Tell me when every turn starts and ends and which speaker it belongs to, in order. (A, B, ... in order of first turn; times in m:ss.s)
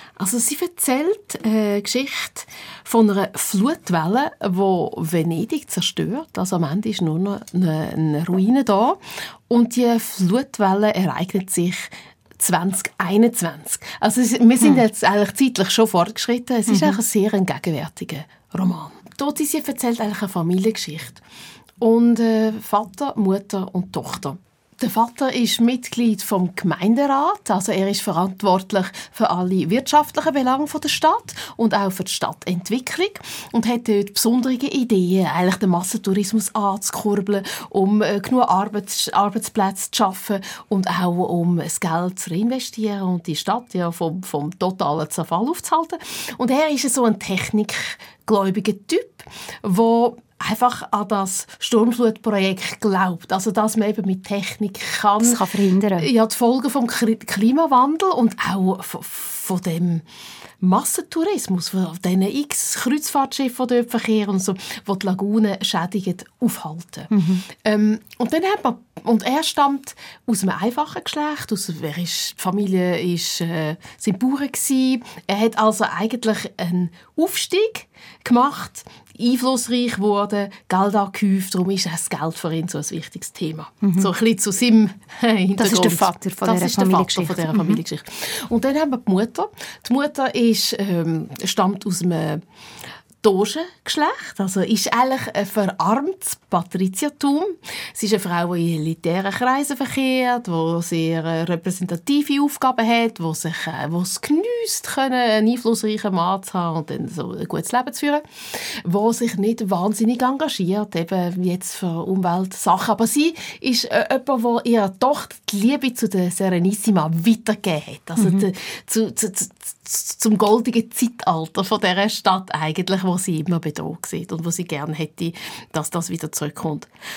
0:00.2-0:21.2 A
0:16.7-0:17.0 B
0:21.8-0:55.4 A
0:55.2-0:56.1 B
0:56.0-1:00.0 A
1:00.6-1:32.4 A
1:07.1-1:07.4 B
1:23.8-1:24.1 B
1:25.6-1:27.8 B
1:33.2-2:06.9 A
1:58.2-1:58.5 B